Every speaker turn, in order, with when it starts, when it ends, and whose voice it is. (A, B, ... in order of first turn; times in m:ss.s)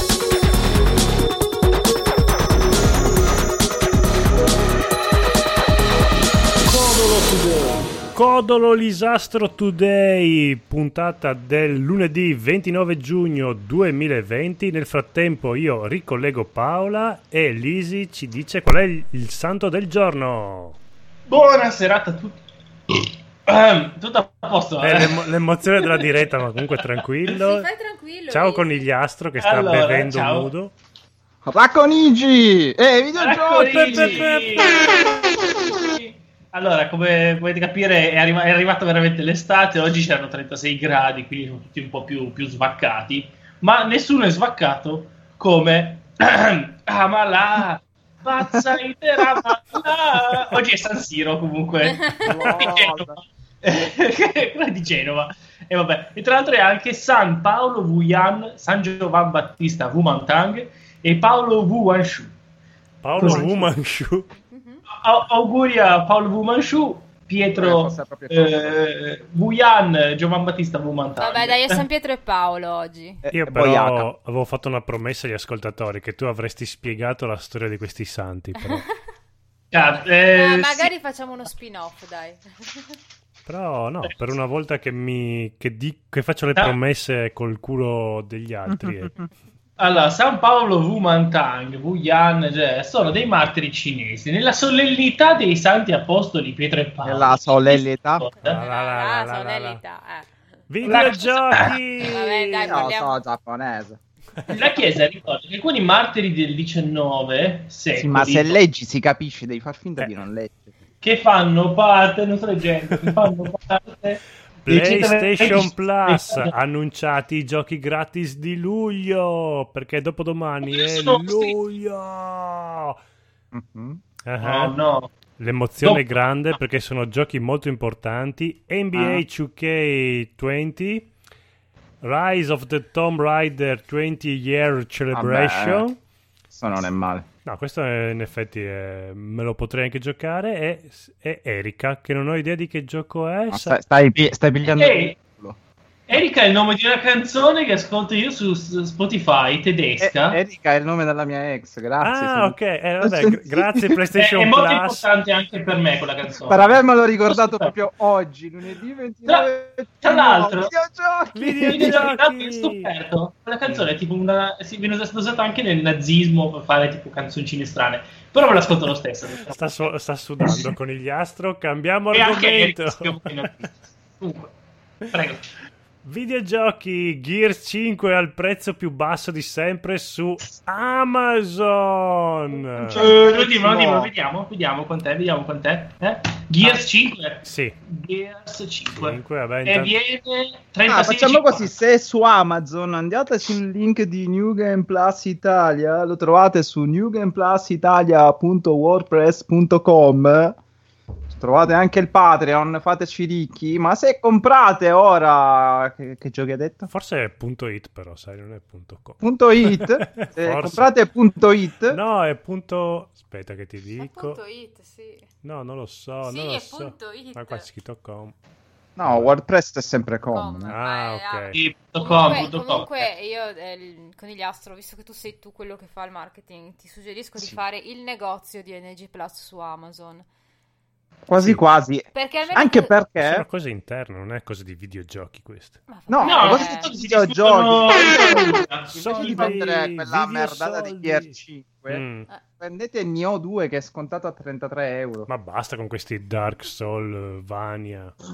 0:06.7-0:20.8 A
0:21.3-0:22.4 B
0:22.9-0:25.2 B
0:24.8-0:27.7 A
0:27.4-0:28.8 C
0:28.3-0:30.7 A
0:29.4-0:30.5 B
0:31.4-0:34.3 D
0:33.2-1:02.3 B
0:33.5-0:35.4 A
0:52.2-0:53.2 D
1:03.0-1:04.3 A
1:03.2-1:03.7 B
1:04.4-1:04.8 C
1:04.9-1:11.8 B
1:07.5-1:08.8 D
1:11.2-1:13.2 C
1:13.2-1:14.1 D
1:13.3-1:18.9 A
1:19.7-1:20.9 B
1:20.3-1:23.0 C
1:23.5-1:29.1 A
1:28.7-1:29.1 D
1:29.8-1:38.6 B
1:37.0-1:38.2 D
1:38.4-1:39.8 A
1:38.4-1:40.4 C
1:40.7-1:42.8 A
1:40.8-1:41.5 B
1:40.9-1:41.2 C
1:42.1-1:43.2 C
1:42.6-1:44.0 D
1:44.5-1:48.6 B
1:48.0-1:50.7 D
1:51.0-1:56.5 B
1:53.0-1:53.3 A
1:54.6-2:03.0 A
2:00.6-2:01.6 B
2:03.5-2:04.0 D
2:04.3-2:04.8 A
2:04.4-2:05.1 B
2:05.4-2:11.1 A
2:08.9-2:09.2 D
2:12.0-2:16.0 A
2:15.1-2:15.8 D
2:16.5-2:17.2 D
2:17.5-2:23.8 A
2:23.5-2:25.6 D
2:24.7-2:25.2 B
2:26.1-2:30.4 B
2:30.0-2:34.0 D
2:32.0-2:35.0 A
2:34.2-2:36.8 B
2:36.5-2:42.1 D
2:37.3-2:37.7 B
2:40.0-2:40.7 B
2:41.4-2:42.9 A
2:41.7-2:49.9 B
2:49.4-2:53.7 A
2:52.1-2:53.7 B
2:54.2-2:54.5 B
2:55.1-2:55.5 B
2:56.0-3:03.1 A
3:02.8-3:04.1 D
3:03.0-3:11.7 B
3:07.4-3:07.8 A
3:08.9-3:10.0 A
3:10.9-3:20.6 D
3:21.3-3:26.9 D
3:26.9-3:30.9 A
3:29.2-3:32.0 D
3:31.9-3:34.4 A
3:34.0-3:35.3 C
3:35.4-3:38.4 A
3:36.2-3:37.7 C
3:39.0-3:40.8 D
3:39.0-3:39.3 A
3:40.3-3:50.3 C
3:40.7-3:41.6 A
3:41.5-3:43.1 B
3:51.3-3:53.4 D
3:52.1-3:52.9 C
3:53.2-3:55.8 A
3:55.9-3:56.9 C
3:56.1-4:02.0 D
3:56.2-3:59.6 B
3:58.9-4:01.4 A
4:01.9-4:02.3 A
4:02.6-4:05.3 D
4:05.3-4:08.1 A